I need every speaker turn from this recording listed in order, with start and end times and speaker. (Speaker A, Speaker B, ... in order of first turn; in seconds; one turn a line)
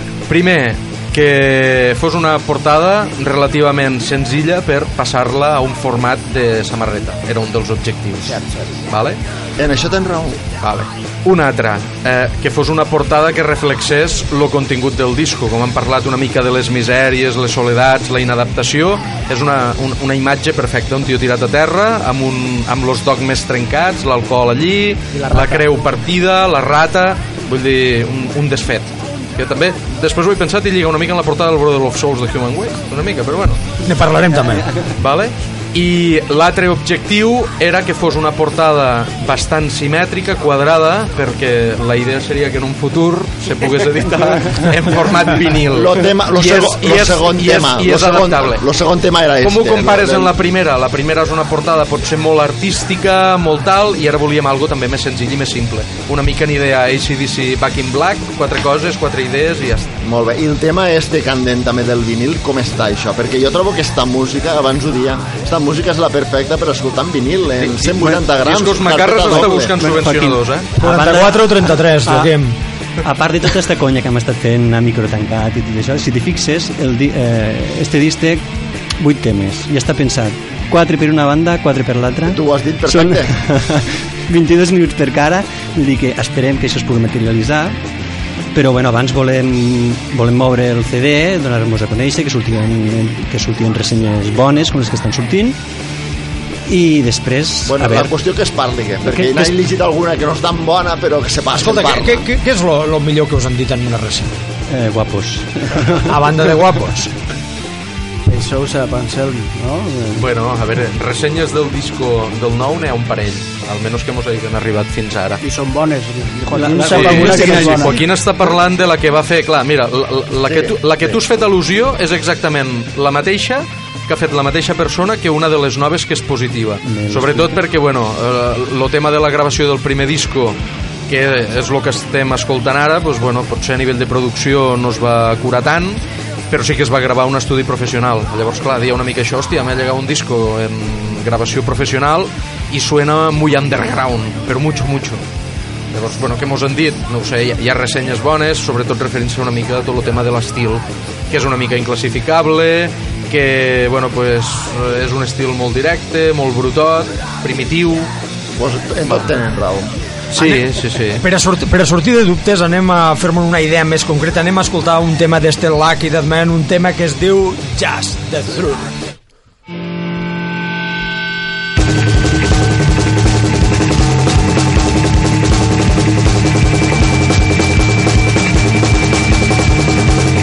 Speaker A: 0.3-9.2
Speaker B: 8.2-8.8
Speaker C: 9.6-10.4
Speaker A: 10.6-33.6
Speaker B: 25.1-25.7
Speaker D: 33.8-34.6
Speaker A: 35.0-48.6
Speaker C: 45.7-50.3
Speaker A: 49.4-59.9
Speaker C: 60.0-69.7
Speaker A: 67.6-70.7
Speaker E: 69.7-72.3
Speaker D: 70.8-72.5
Speaker E: 73.0-78.4
Speaker E: 79.0-87.8
Speaker C: 82.3-83.4
Speaker E: 88.5-95.6
Speaker E: 96.7-98.1
Speaker C: 97.7-102.2
Speaker E: 99.1-99.5
Speaker D: 101.5-104.3
Speaker E: 104.7-106.1
Speaker D: 106.0-107.1
Speaker B: 108.3-110.2
Speaker A: 110.2-115.4
Speaker B: 115.4-118.0
Speaker E: 116.5-118.0
Speaker A: 116.9-130.6
Speaker C: 120.5-120.8
Speaker E: 126.8-127.6
Speaker A: 131.1-145.2
Speaker A: 145.9-158.1
Speaker C: 158.6-159.9
Speaker A: 160.3-161.2
Speaker D: 160.3-169.0